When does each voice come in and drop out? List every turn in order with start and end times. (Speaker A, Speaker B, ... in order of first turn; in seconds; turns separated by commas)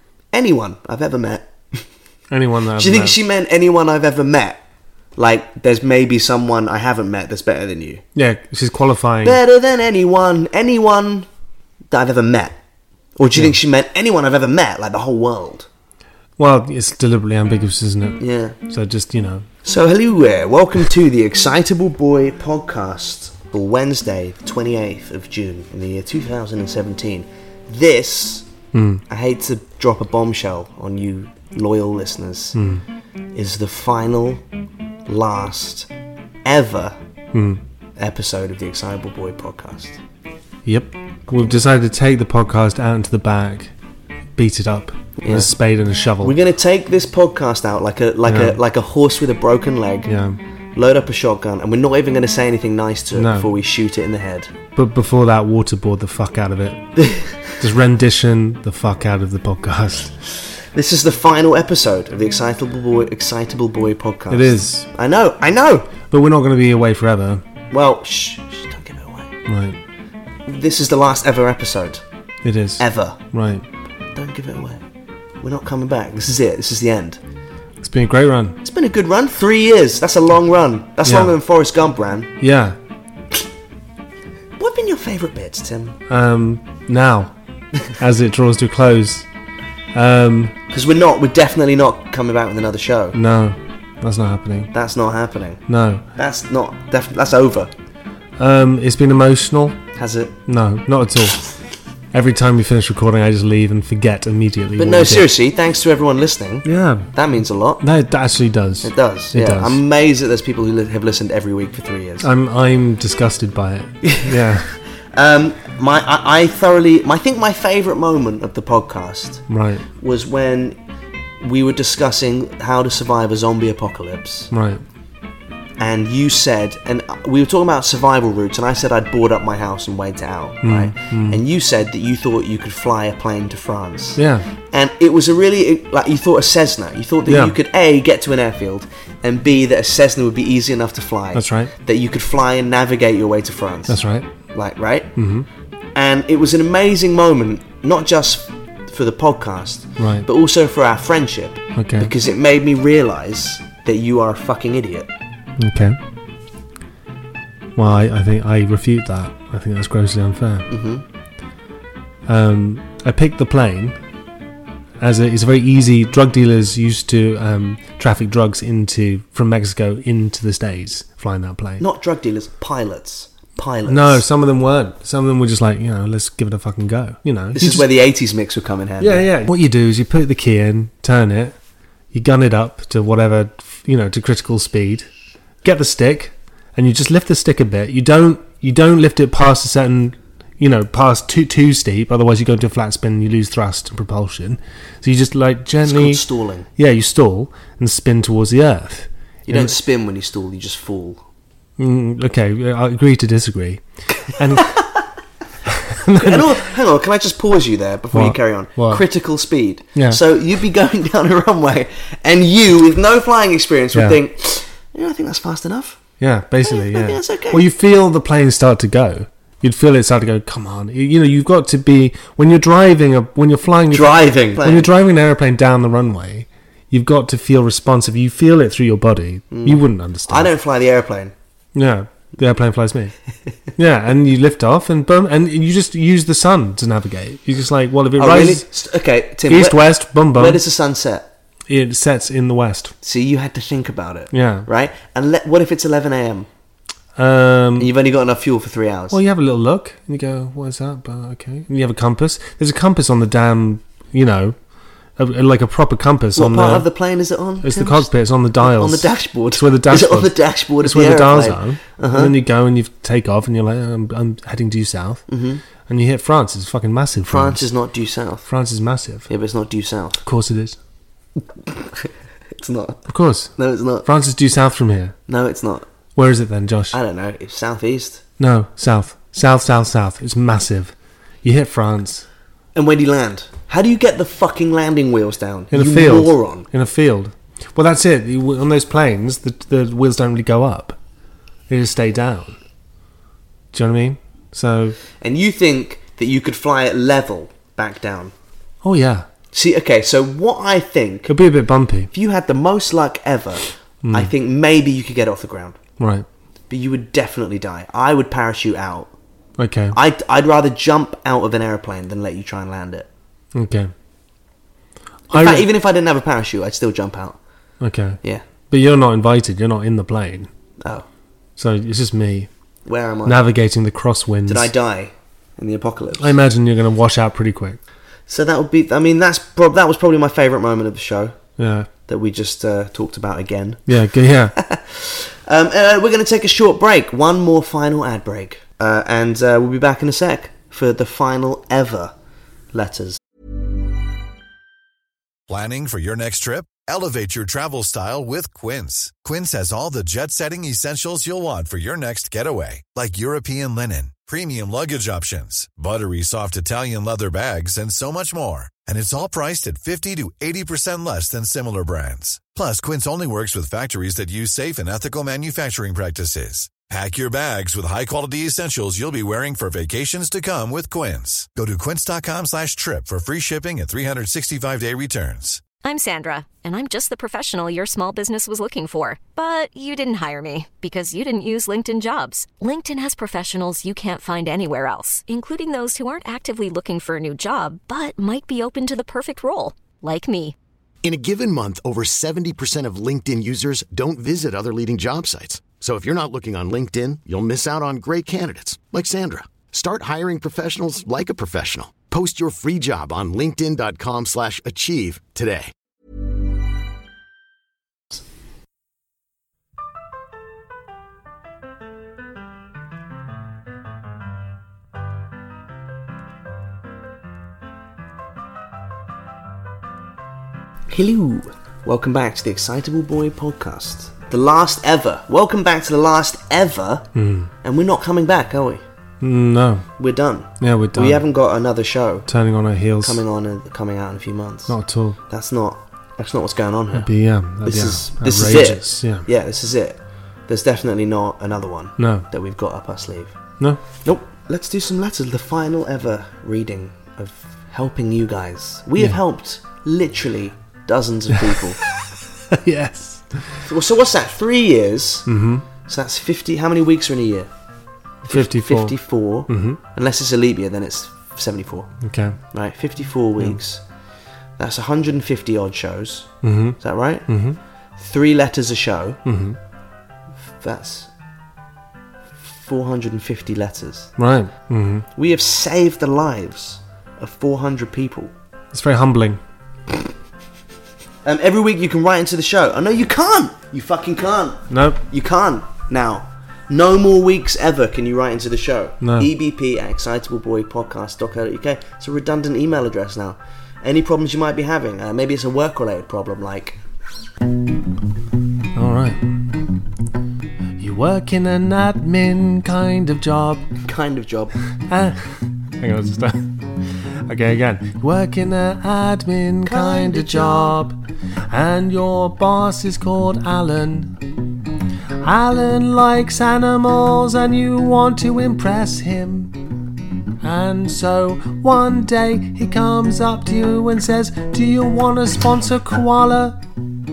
Speaker A: 0.3-1.8, Speaker B: 2.3-3.1, Speaker A: 2.8-4.6, Speaker A: 5.2-8.0, Speaker B: 8.2-9.4, Speaker A: 9.2-11.3, Speaker A: 11.9-12.6, Speaker A: 13.2-15.7, Speaker B: 16.4-19.4, Speaker A: 18.2-18.6, Speaker A: 19.6-28.5, Speaker B: 28.7-29.0, Speaker A: 29.1-32.6, Speaker B: 32.5-32.8, Speaker A: 33.3-34.4, Speaker A: 35.0-35.9, Speaker A: 36.4-37.0, Speaker B: 37.3-37.6, Speaker A: 38.0-40.0, Speaker B: 40.6-43.7, Speaker B: 44.4-46.3, Speaker A: 45.2-45.5, Speaker A: 46.2-50.1, Speaker B: 48.2-48.6, Speaker B: 50.1-50.4, Speaker A: 50.7-54.5, Speaker B: 53.1-53.5, Speaker B: 54.8-56.8, Speaker A: 57.0-57.3, Speaker B: 57.6-60.1, Speaker A: 60.7-65.9, Speaker B: 64.3-64.9, Speaker B: 66.1-67.4, Speaker A: 67.7-69.3, Speaker B: 69.5-69.8, Speaker A: 70.5-72.0, Speaker B: 72.4-73.6, Speaker A: 72.8-73.2, Speaker A: 74.1-74.8, Speaker A: 75.4-77.2, Speaker B: 77.8-78.6, Speaker A: 78.6-82.3, Speaker B: 81.0-81.3, Speaker B: 82.4-82.8, Speaker A: 84.6-86.0, Speaker B: 86.1-87.3, Speaker B: 88.0-89.2, Speaker B: 89.9-90.5, Speaker A: 90.7-93.2, Speaker B: 93.1-94.7, Speaker A: 94.7-95.6, Speaker B: 95.7-96.0, Speaker A: 96.2-97.7, Speaker B: 98.4-99.8, Speaker A: 100.0-100.4, Speaker B: 100.5-101.5, Speaker B: 102.1-105.3, Speaker A: 104.8-107.8, Speaker B: 106.6-107.1, Speaker B: 107.8-109.8, Speaker A: 108.8-112.3, Speaker B: 112.2-114.7, Speaker A: 115.1-119.4, Speaker B: 119.5-119.8, Speaker A: 120.0-120.8, Speaker A: 121.4-124.5, Speaker B: 124.5-124.8, Speaker A: 125.8-144.0, Speaker B: 130.6-131.4, Speaker B: 134.2-134.4, Speaker B: 137.3-137.5, Speaker B: 141.3-141.7, Speaker B: 143.9-144.2, Speaker A: 144.5-145.1, Speaker B: 145.2-145.4, Speaker A: 145.9-155.1, Speaker B: 150.0-150.2, Speaker B: 151.8-152.1, Speaker B: 155.6-156.0, Speaker B: 157.8-160.7, Speaker A: 160.7-161.0, Speaker B: 162.3-163.9, Speaker B: 165.0-171.8, Speaker A: 171.8-174.2, Speaker B: 173.8-177.8, Speaker A: 177.5-179.3, Speaker B: 179.0-181.5, Speaker B: 182.1-185.1, Speaker B: 185.6-196.2, Speaker A: 195.8-196.7, Speaker B: 196.8-199.7, Speaker A: 199.5-201.2, Speaker B: 201.8-204.8, Speaker B: 205.9-206.6, Speaker A: 206.2-216.0, Speaker B: 208.1-209.0, Speaker B: 209.9-210.2, Speaker B: 213.9-214.2, Speaker B: 216.2-230.5, Speaker A: 216.6-217.7, Speaker A: 223.9-224.9, Speaker A: 229.5-231.3, Speaker B: 231.7-233.1, Speaker B: 233.8-238.7, Speaker A: 238.2-239.8, Speaker B: 239.5-240.6, Speaker A: 240.3-241.3, Speaker B: 241.7-242.9, Speaker A: 243.0-246.5, Speaker B: 244.3-244.7, Speaker B: 247.2-247.9, Speaker A: 247.8-249.2, Speaker B: 249.1-254.5, Speaker B: 255.2-256.9, Speaker A: 256.4-258.1, Speaker B: 257.6-265.2, Speaker A: 258.6-262.4, Speaker A: 265.3-265.6, Speaker B: 265.9-267.6, Speaker A: 267.3-268.5, Speaker B: 268.5-269.3, Speaker A: 269.3-270.2, Speaker B: 270.2-270.8, Speaker A: 271.7-273.1, Speaker B: 273.1-275.1, Speaker A: 273.6-274.1, Speaker A: 275.3-275.9, Speaker B: 276.1-277.0, Speaker A: 276.9-278.2, Speaker B: 278.4-282.2, Speaker A: 282.7-286.6, Speaker B: 285.7-291.0, Speaker B: 291.7-292.6, Speaker B: 293.7-295.0, Speaker A: 295.2-298.3, Speaker B: 298.8-299.2, Speaker A: 299.5-301.3, Speaker B: 301.3-302.1, Speaker A: 302.1-305.8, Speaker B: 304.0-304.3, Speaker B: 306.0-306.2, Speaker A: 306.7-309.1, Speaker B: 309.6-309.9, Speaker A: 309.9-313.1, Speaker B: 313.5-313.9, Speaker A: 315.3-317.4, Speaker B: 315.3-315.7, Speaker B: 317.8-318.2, Speaker B: 318.7-320.5, Speaker A: 320.8-321.1, Speaker B: 321.6-322.5, Speaker A: 322.9-323.4, Speaker B: 323.2-324.7, Speaker A: 324.4-326.3, Speaker B: 326.2-327.8, Speaker A: 328.3-331.4, Speaker B: 331.6-331.9, Speaker A: 332.1-333.9, Speaker B: 333.9-334.6, Speaker A: 334.6-342.1, Speaker A: 342.7-343.2, Speaker C: 345.5-375.6, Speaker D: 375.8-390.5, Speaker E: 391.0-405.7, Speaker A: 420.9-427.1, Speaker B: 427.1-427.5, Speaker A: 427.6-428.8, Speaker B: 429.2-429.9, Speaker A: 430.0-432.3, Speaker B: 430.6-431.2, Speaker B: 432.3-433.2, Speaker A: 433.0-434.8, Speaker B: 434.7-435.2, Speaker A: 435.3-437.1, Speaker B: 436.9-439.2, Speaker A: 437.6-443.4, Speaker B: 442.0-442.2, Speaker A: 444.0-451.8, Speaker B: 452.5-453.5, Speaker A: 453.6-455.3, Speaker B: 455.3-455.6, Speaker A: 455.8-457.5, Speaker A: 458.2-461.9, Speaker B: 458.3-459.0, Speaker B: 459.5-459.8, Speaker B: 462.0-462.4, Speaker A: 462.5-463.8, Speaker A: 464.6-467.3, Speaker B: 466.4-466.8, Speaker B: 467.3-467.6, Speaker A: 468.0-469.2, Speaker B: 469.2-469.6, Speaker A: 470.6-471.1, Speaker A: 472.4-474.1, Speaker B: 474.2-475.0, Speaker A: 475.1-478.3, Speaker B: 478.7-479.4, Speaker A: 481.2-496.8, Speaker B: 484.7-485.0, Speaker B: 489.0-489.3, Speaker B: 498.7-499.2, Speaker B: 500.8-503.6, Speaker A: 503.8-504.5, Speaker B: 504.9-506.5, Speaker B: 507.3-510.9, Speaker A: 509.6-510.8, Speaker B: 511.5-514.1, Speaker B: 515.2-519.5, Speaker B: 520.4-526.6